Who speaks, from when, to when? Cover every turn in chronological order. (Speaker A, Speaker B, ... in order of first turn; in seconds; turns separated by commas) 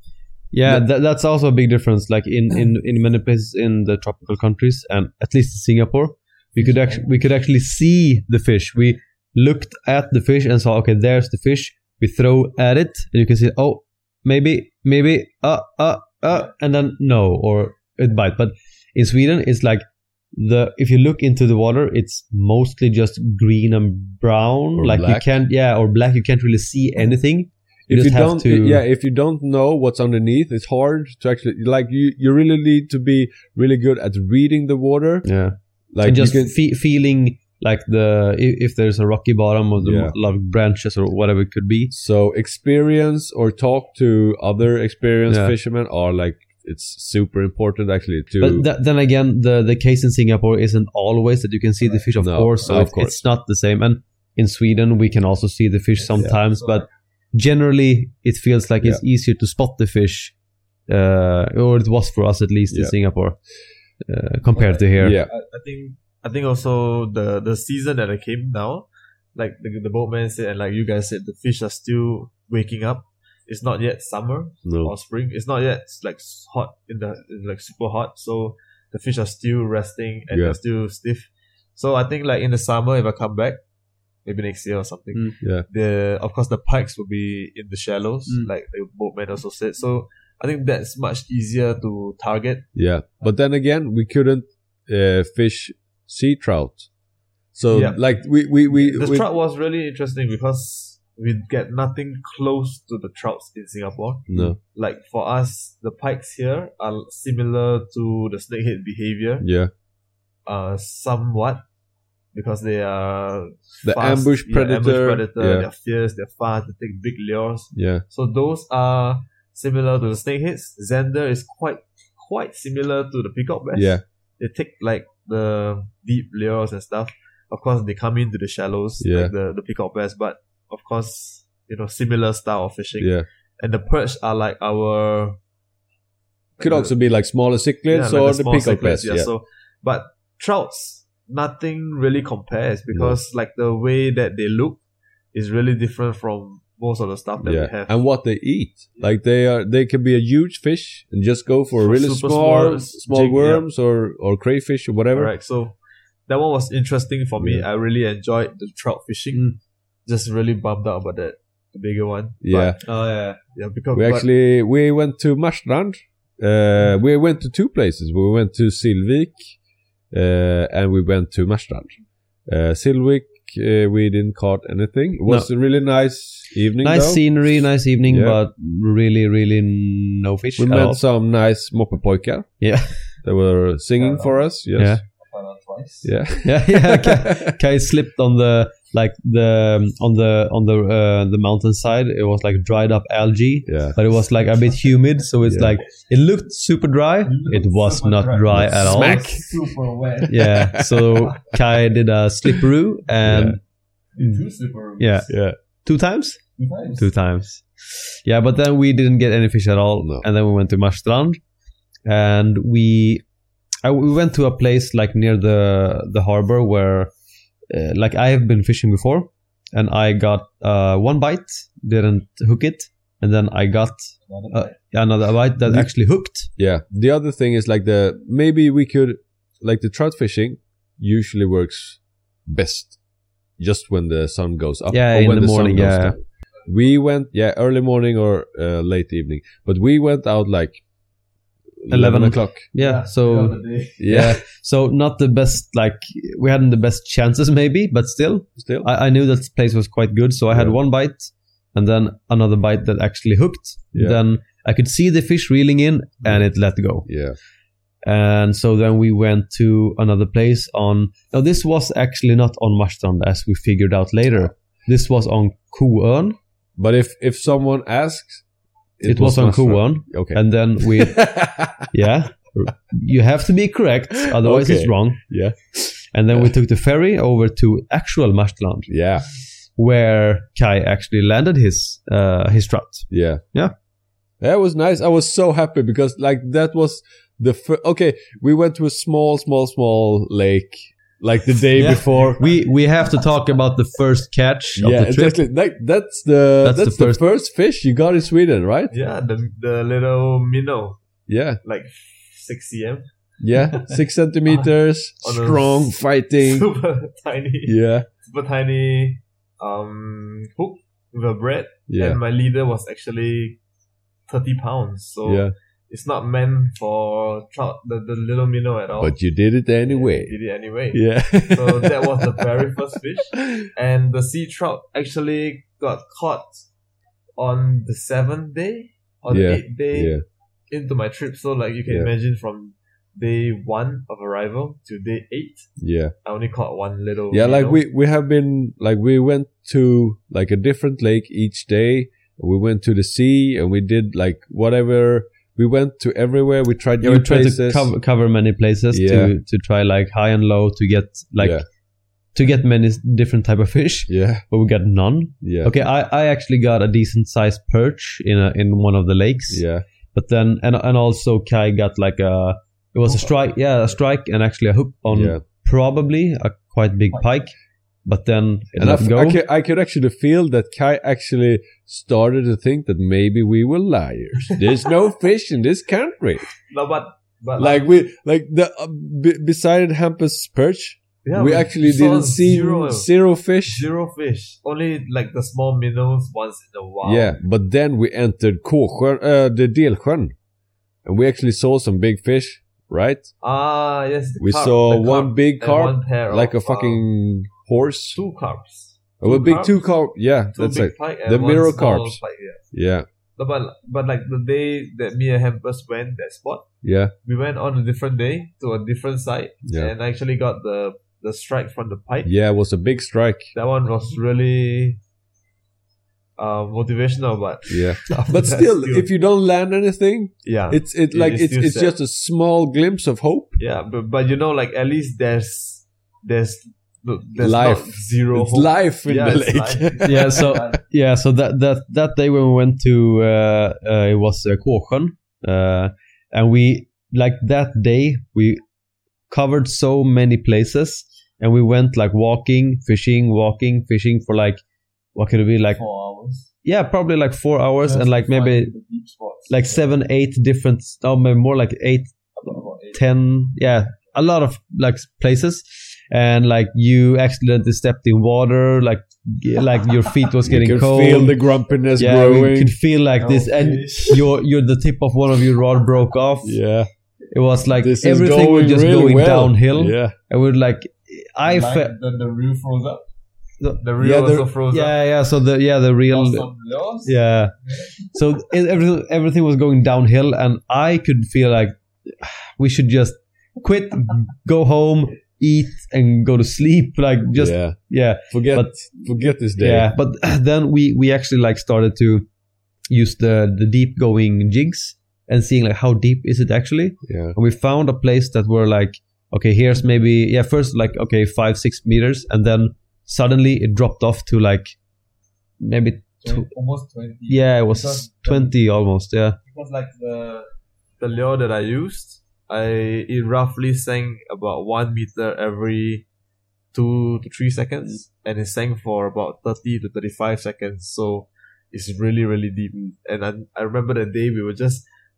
Speaker A: 0.5-28.8, Speaker B: 24.8-25.3, Speaker B: 27.9-35.3, Speaker A: 35.2-41.9, Speaker B: 35.9-36.5, Speaker B: 39.8-40.1, Speaker B: 41.9-48.7, Speaker A: 45.3-45.5, Speaker A: 48.4-60.3, Speaker B: 52.2-53.2, Speaker C: 56.1-56.9, Speaker A: 60.9-63.4, Speaker A: 64.0-65.2, Speaker C: 64.5-83.6, Speaker B: 65.0-65.3, Speaker B: 74.6-74.9, Speaker B: 80.3-80.6, Speaker C: 84.2-92.7, Speaker B: 92.7-96.9, Speaker B: 97.5-99.2, Speaker C: 97.7-98.1, Speaker C: 98.7-109.5, Speaker B: 104.3-104.6, Speaker B: 109.4-109.7, Speaker C: 110.5-111.6, Speaker C: 112.3-135.4, Speaker B: 113.8-115.7, Speaker B: 117.7-118.0, Speaker B: 123.7-124.0, Speaker B: 129.0-129.3, Speaker B: 133.0-133.2, Speaker C: 136.6-136.9, Speaker B: 136.6-139.3, Speaker C: 137.9-144.8, Speaker B: 142.9-143.2, Speaker C: 145.3-148.0, Speaker B: 147.4-155.3, Speaker C: 151.8-153.7, Speaker C: 155.1-155.8, Speaker C: 156.3-162.9, Speaker B: 157.4-157.6, Speaker B: 162.4-162.8, Speaker A: 162.8-163.4, Speaker C: 163.5-164.2, Speaker B: 163.9-169.6, Speaker B: 170.1-171.9, Speaker B: 172.5-178.4, Speaker A: 176.8-181.0, Speaker B: 180.6-182.5, Speaker A: 182.6-183.1, Speaker B: 183.2-185.0, Speaker C: 184.0-184.5, Speaker A: 184.8-185.0, Speaker C: 185.1-186.1, Speaker B: 186.0-187.5, Speaker A: 186.4-199.2, Speaker B: 193.7-194.0, Speaker B: 195.4-195.8, Speaker C: 197.2-200.4, Speaker B: 198.5-199.6, Speaker B: 200.2-201.3, Speaker A: 200.3-203.6, Speaker B: 203.2-203.6, Speaker C: 204.1-205.3, Speaker A: 205.0-205.3, Speaker B: 205.3-205.6, Speaker A: 205.8-211.4, Speaker C: 206.6-207.1, Speaker B: 210.0-210.2, Speaker A: 212.1-213.2, Speaker A: 213.8-217.1, Speaker A: 217.7-226.5, Speaker C: 224.3-224.7, Speaker B: 226.6-233.0, Speaker B: 233.6-240.8, Speaker A: 234.9-236.2, Speaker B: 241.8-242.6, Speaker A: 241.9-257.1, Speaker C: 242.8-244.0, Speaker B: 244.0-244.4, Speaker B: 248.6-248.9, Speaker B: 250.5-250.8, Speaker B: 253.9-254.2, Speaker B: 257.1-257.4, Speaker A: 258.0-266.4, Speaker B: 266.8-268.4, Speaker B: 269.0-271.9, Speaker A: 269.0-271.2, Speaker A: 271.9-275.2, Speaker B: 274.3-276.5, Speaker A: 276.1-278.9, Speaker B: 278.9-279.2, Speaker A: 279.8-283.7, Speaker B: 283.1-283.4, Speaker B: 284.4-292.4, Speaker A: 291.8-295.4, Speaker B: 294.8-298.9, Speaker A: 296.6-297.2, Speaker C: 298.9-301.0, Speaker B: 301.3-301.6, Speaker C: 301.6-303.1, Speaker B: 303.4-306.7, Speaker C: 305.2-313.6, Speaker B: 307.6-308.1, Speaker B: 311.9-312.2, Speaker C: 314.3-319.2, Speaker B: 315.2-315.5, Speaker B: 319.0-320.3, Speaker C: 319.8-326.6, Speaker B: 320.9-322.4, Speaker B: 323.4-323.7, Speaker C: 327.4-330.1, Speaker B: 329.3-330.2, Speaker C: 330.7-335.7, Speaker B: 335.8-336.1, Speaker C: 336.2-337.8, Speaker B: 337.3-347.9, Speaker A: 347.0-351.6, Speaker B: 348.9-349.3, Speaker B: 351.4-351.6, Speaker A: 352.3-367.5, Speaker B: 354.1-354.4, Speaker B: 355.4-355.7, Speaker B: 359.5-359.8, Speaker C: 363.1-363.4, Speaker B: 365.1-365.4, Speaker A: 368.1-369.4, Speaker B: 368.8-376.4, Speaker C: 374.4-374.9, Speaker C: 376.6-377.8, Speaker B: 377.6-383.9, Speaker C: 381.2-383.1, Speaker C: 383.6-387.4, Speaker B: 387.0-390.3, Speaker B: 391.0-393.3, Speaker C: 393.4-397.0, Speaker B: 394.4-398.2, Speaker C: 398.1-399.8, Speaker B: 399.2-402.2, Speaker C: 400.5-402.6, Speaker B: 402.7-403.1, Speaker C: 403.4-406.6, Speaker B: 406.8-407.1, Speaker C: 407.2-412.3, Speaker B: 409.6-409.9, Speaker B: 412.2-413.5, Speaker C: 413.5-415.0, Speaker C: 416.4-419.1, Speaker B: 417.7-423.6, Speaker C: 420.4-421.9, Speaker C: 423.6-430.8, Speaker B: 427.4-430.6, Speaker A: 430.0-438.6, Speaker A: 439.3-444.6, Speaker A: 445.1-445.8, Speaker C: 445.7-446.5, Speaker A: 446.6-448.7, Speaker C: 447.8-449.8, Speaker A: 449.5-452.2, Speaker C: 452.4-453.0, Speaker A: 452.9-461.4, Speaker B: 460.5-462.8, Speaker A: 462.0-466.6, Speaker C: 463.2-464.2, Speaker B: 466.4-466.9, Speaker A: 467.3-471.9, Speaker B: 467.8-470.1, Speaker C: 471.4-473.0, Speaker A: 473.6-476.5, Speaker C: 473.8-474.9, Speaker C: 476.1-478.1, Speaker A: 477.0-477.5, Speaker A: 478.1-488.8, Speaker B: 487.4-487.8, Speaker B: 488.3-489.9, Speaker A: 489.6-492.2, Speaker A: 492.9-504.8, Speaker B: 497.1-497.4, Speaker A: 505.6-506.5, Speaker C: 506.2-508.6, Speaker A: 507.3-509.4, Speaker C: 509.4-516.0, Speaker C: 516.7-524.8